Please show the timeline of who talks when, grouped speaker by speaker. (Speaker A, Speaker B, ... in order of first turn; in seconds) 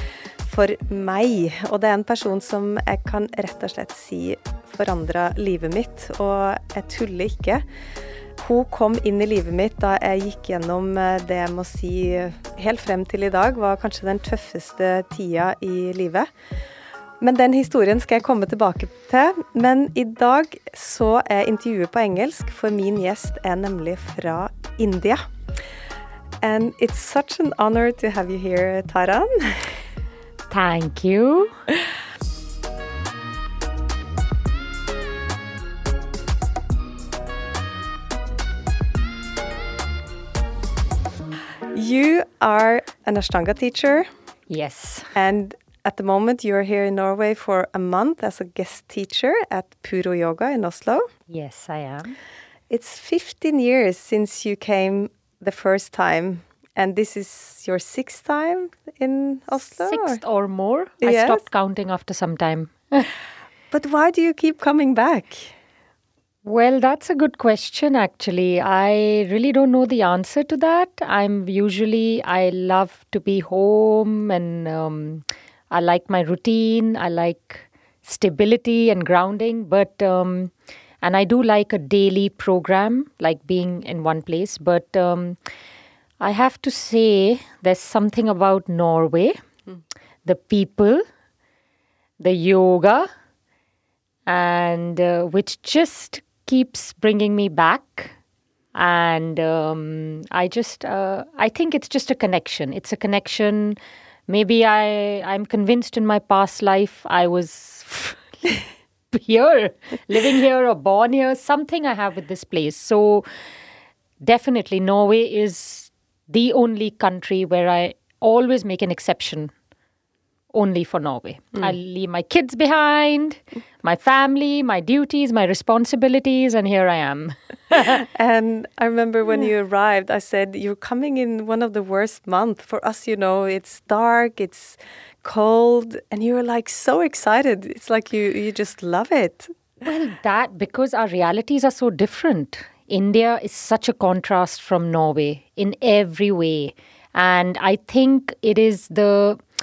Speaker A: 0.4-7.7, 8.4-16.3, 17.2-25.2, 26.4-29.8, 41.7-44.1, 45.1-51.1, 52.7-60.2, 61.0-61.4, 63.7-65.5, 128.1-139.5
Speaker B: 30.5-31.5, 44.5-45.1, 51.3-52.2, 59.8-63.1, 66.5-85.4, 86.2-89.4, 90.2-91.0, 92.2-93.1, 94.3-98.2, 98.8-113.3, 114.2-119.5, 120.5-128.1, 139.8-149.4